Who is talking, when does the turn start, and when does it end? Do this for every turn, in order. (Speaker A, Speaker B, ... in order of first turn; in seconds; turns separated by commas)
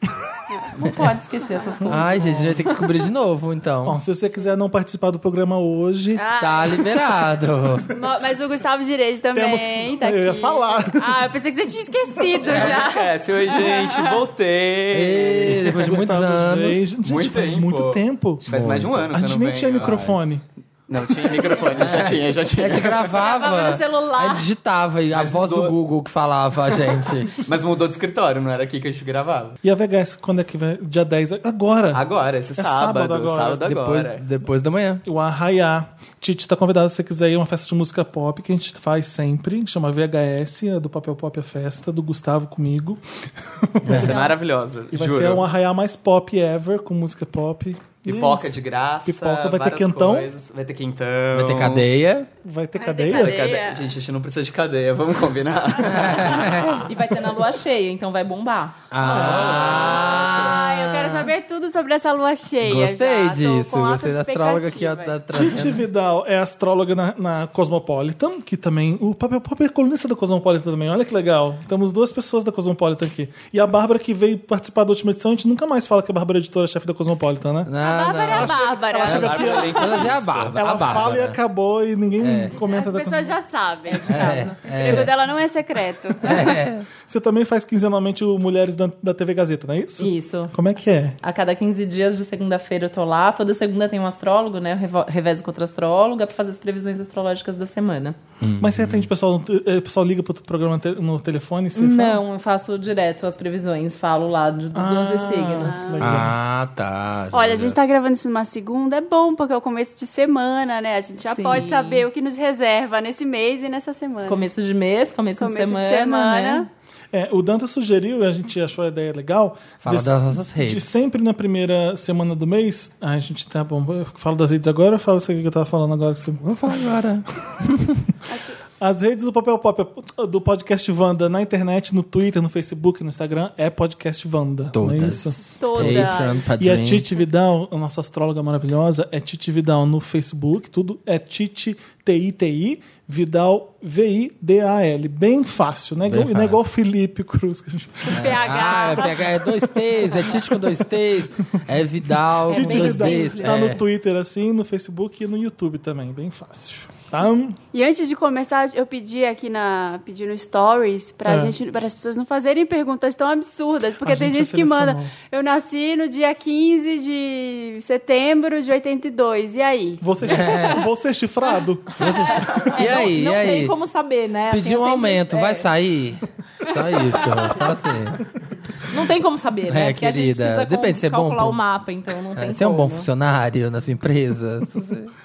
Speaker A: 0.8-2.6, Speaker B: 1.8-2.6, Speaker C: 1.9-4.0, Speaker B: 3.8-6.2, Speaker D: 6.1-7.2, Speaker C: 6.4-7.9, Speaker D: 7.9-14.2, Speaker B: 9.3-11.2, Speaker E: 12.4-15.9, Speaker C: 14.9-17.0, Speaker B: 15.8-20.4, Speaker E: 17.0-20.0, Speaker C: 18.5-19.0, Speaker C: 19.8-20.2, Speaker E: 20.9-23.1, Speaker C: 21.7-27.4, Speaker D: 23.1-24.5, Speaker E: 25.1-25.7, Speaker E: 27.4-29.6, Speaker B: 29.6-32.0, Speaker E: 31.9-34.2, Speaker B: 32.5-33.6, Speaker C: 33.6-35.0, Speaker B: 35.0-44.3, Speaker C: 43.8-44.2, Speaker D: 43.9-44.3, Speaker E: 44.0-45.4, Speaker B: 44.9-50.3, Speaker E: 48.0-51.9, Speaker C: 51.3-52.3, Speaker B: 52.4-53.5, Speaker D: 52.8-53.9, Speaker E: 53.1-56.7, Speaker C: 55.8-56.9, Speaker A: 56.8-58.8, Speaker C: 58.9-61.3, Speaker D: 59.0-65.2, Speaker E: 59.0-60.5, Speaker B: 59.1-59.5, Speaker C: 62.6-65.8, Speaker B: 65.3-77.7, Speaker C: 77.7-81.4, Speaker D: 77.8-80.0, Speaker B: 78.3-83.4, Speaker E: 79.1-80.5, Speaker C: 82.2-82.6, Speaker D: 82.6-86.5, Speaker A: 84.0-84.5, Speaker C: 84.1-85.2, Speaker B: 84.8-85.2, Speaker B: 86.1-91.2, Speaker C: 86.2-86.9, Speaker A: 90.0-90.5, Speaker A: 91.2-98.2, Speaker C: 98.4-99.1, Speaker B: 98.6-102.2, Speaker A: 101.7-105.8, Speaker B: 104.7-106.3, Speaker D: 105.6-106.2, Speaker C: 106.0-107.8, Speaker D: 107.3-114.4, Speaker A: 111.2-112.0, Speaker A: 114.3-116.7, Speaker D: 115.4-116.7, Speaker B: 117.1-126.8, Speaker C: 119.8-121.0, Speaker C: 126.4-127.2, Speaker D: 128.3-128.6, Speaker B: 128.8-148.4, Speaker C: 134.7-137.1, Speaker D: 135.6-136.6, Speaker C: 146.1-146.6, Speaker D: 148.1-149.6, Speaker C: 148.1-153.8, Speaker B: 150.3-150.9, Speaker B: 152.2-157.6, Speaker A: 152.5-153.6, Speaker D: 157.7-170.0, Speaker B: 161.2-161.5, Speaker B: 164.0-165.1, Speaker B: 170.0-172.3, Speaker C: 170.2-170.9, Speaker C: 172.0-173.7, Speaker A: 172.6-175.7, Speaker C: 174.5-178.2, Speaker A: 178.8-183.1, Speaker C: 179.7-181.6, Speaker C: 182.3-185.1